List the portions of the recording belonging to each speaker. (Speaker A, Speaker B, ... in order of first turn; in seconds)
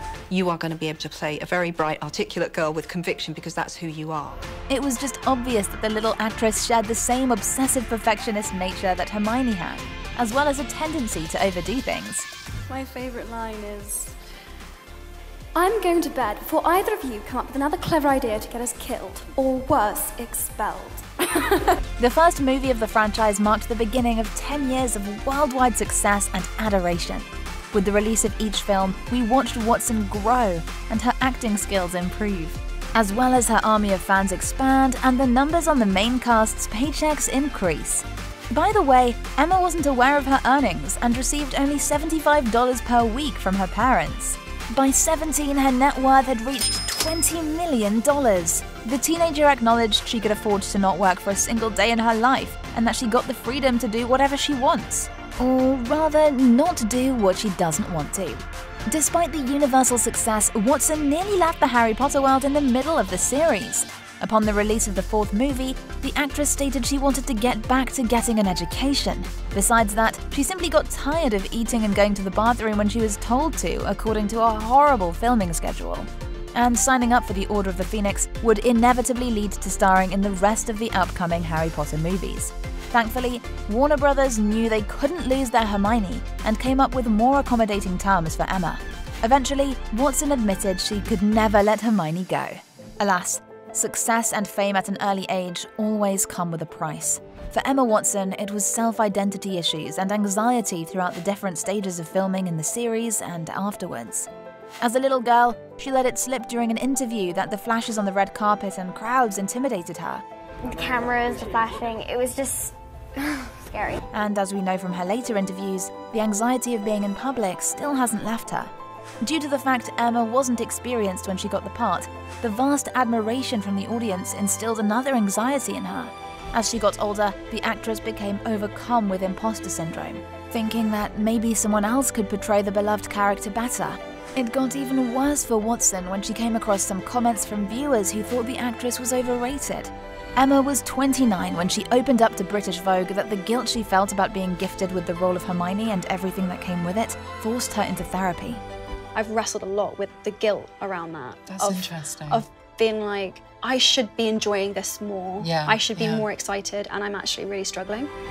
Speaker A: 0.3-4.4, 151.5-152.4, 155.4-156.2
Speaker B: 4.7-12.3, 22.0-104.3, 104.8-110.2, 114.1-148.6
Speaker C: 12.7-14.2, 15.6-21.8, 149.1-158.1
Speaker D: 110.6-114.0